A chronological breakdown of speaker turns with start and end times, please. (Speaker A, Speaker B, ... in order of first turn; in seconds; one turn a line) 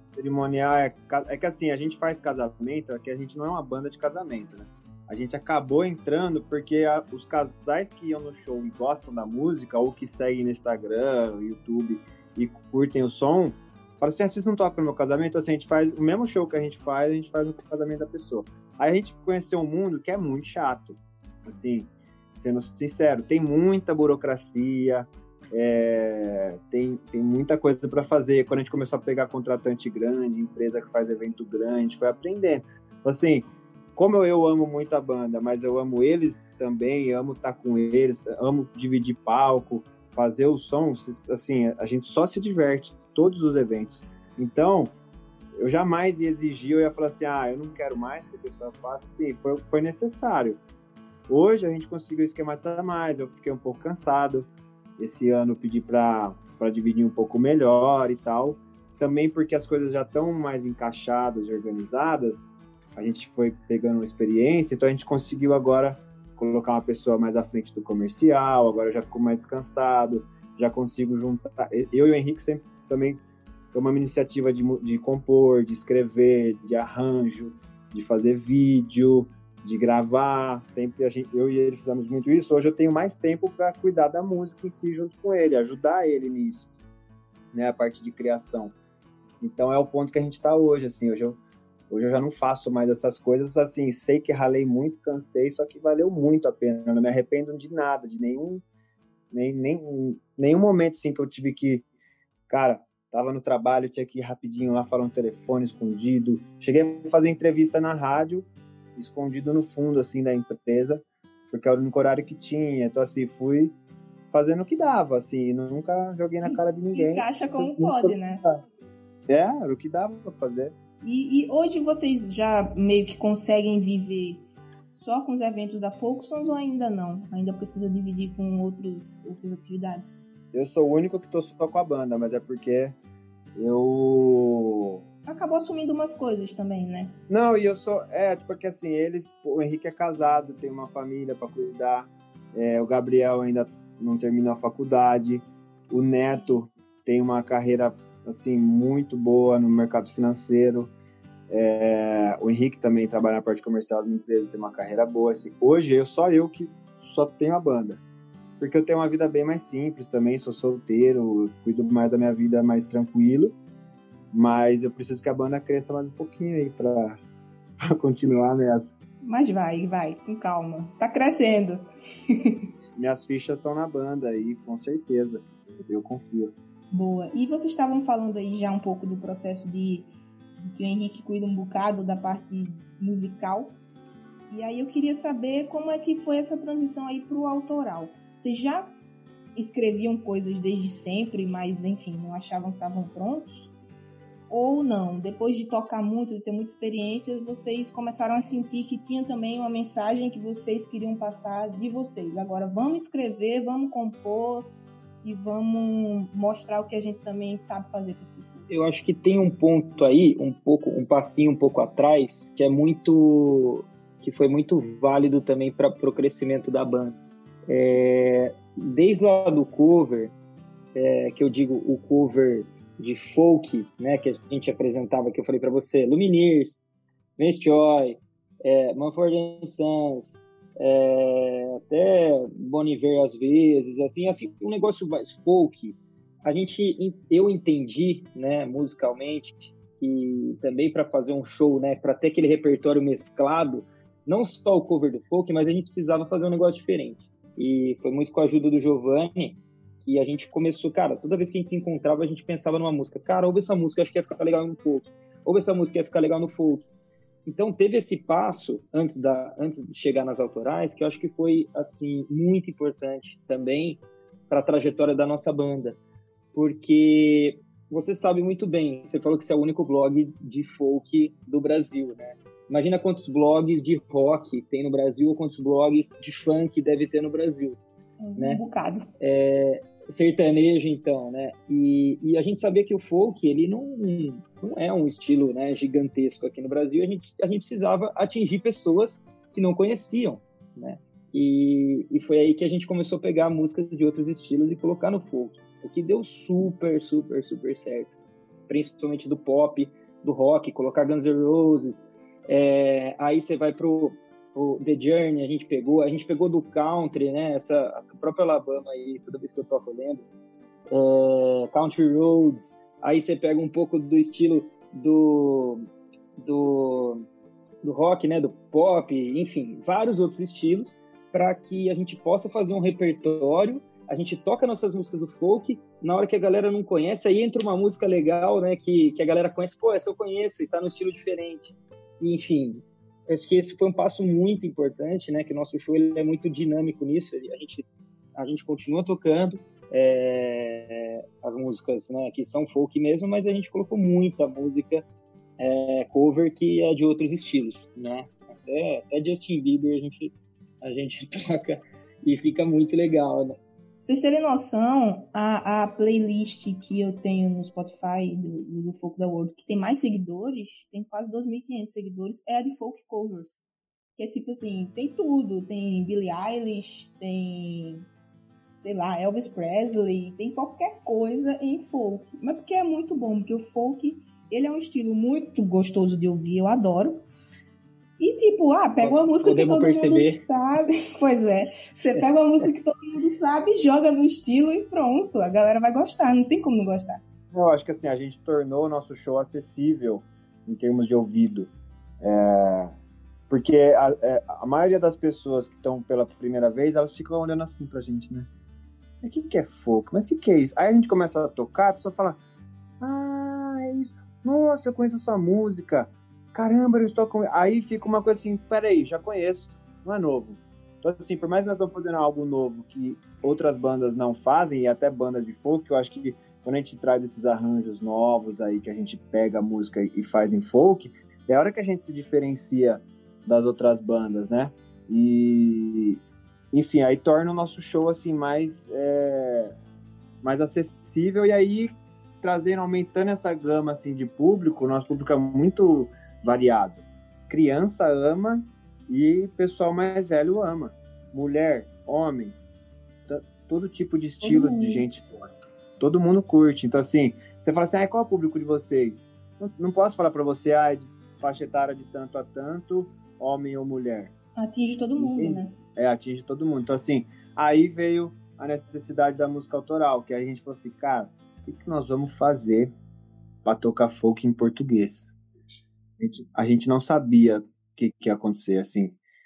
Speaker A: 0.2-44.9
Speaker A: 45.6-50.6
Speaker A: 51.3-86.7
Speaker A: 87.5-88.8
Speaker A: 89.4-98.6
Speaker A: 99.3-101.8
Speaker A: 102.5-113.8
Speaker A: 114.3-118.6
Speaker B: 116.5-118.4
Speaker A: 119.3-120.8
Speaker B: 121.0-130.2
Speaker A: 130.5-133.0
Speaker A: 133.6-135.0
Speaker B: 135.3-137.2
Speaker A: 137.3-150.9
Speaker A: 151.5-158.0
Speaker A: 158.6-163.6
Speaker A: 164.3-167.2
Speaker A: 167.8-168.9
Speaker B: 169.2-171.8
Speaker A: 173.0-176.6
Speaker B: 176.9-183.8
Speaker B: 184.5-188.9
Speaker B: 189.6-193.7
Speaker B: 194.5-204.7
Speaker B: 205.2-208.7
Speaker C: 208.7-220.3
Speaker C: 220.9-226.8
Speaker C: 227.4-256.9
Speaker C: 257.5-266.0
Speaker C: 266.5-277.8
Speaker B: 278.2-279.1
Speaker C: 279.2-298.2
Speaker C: 298.7-310.3
Speaker C: 310.9-315.9
Speaker C: 316.4-317.2
Speaker C: 317.8-345.1
Speaker C: 345.6-353.6
Speaker B: 354.1-363.6
Speaker B: 364.2-368.1
Speaker B: 368.8-377.2
Speaker B: 378.2-387.2
Speaker C: 379.0-380.4
Speaker A: 387.5-393.0
Speaker A: 393.5-398.5
Speaker A: 399.2-402.4
Speaker A: 403.0-426.2
Speaker A: 426.7-429.7
Speaker A: 430.4-442.6
Speaker A: 443.3-454.3
Speaker B: 444.4-445.1
Speaker B: 454.6-455.7
Speaker A: 455.2-462.9
Speaker A: 463.6-465.3
Speaker A: 466.2-469.2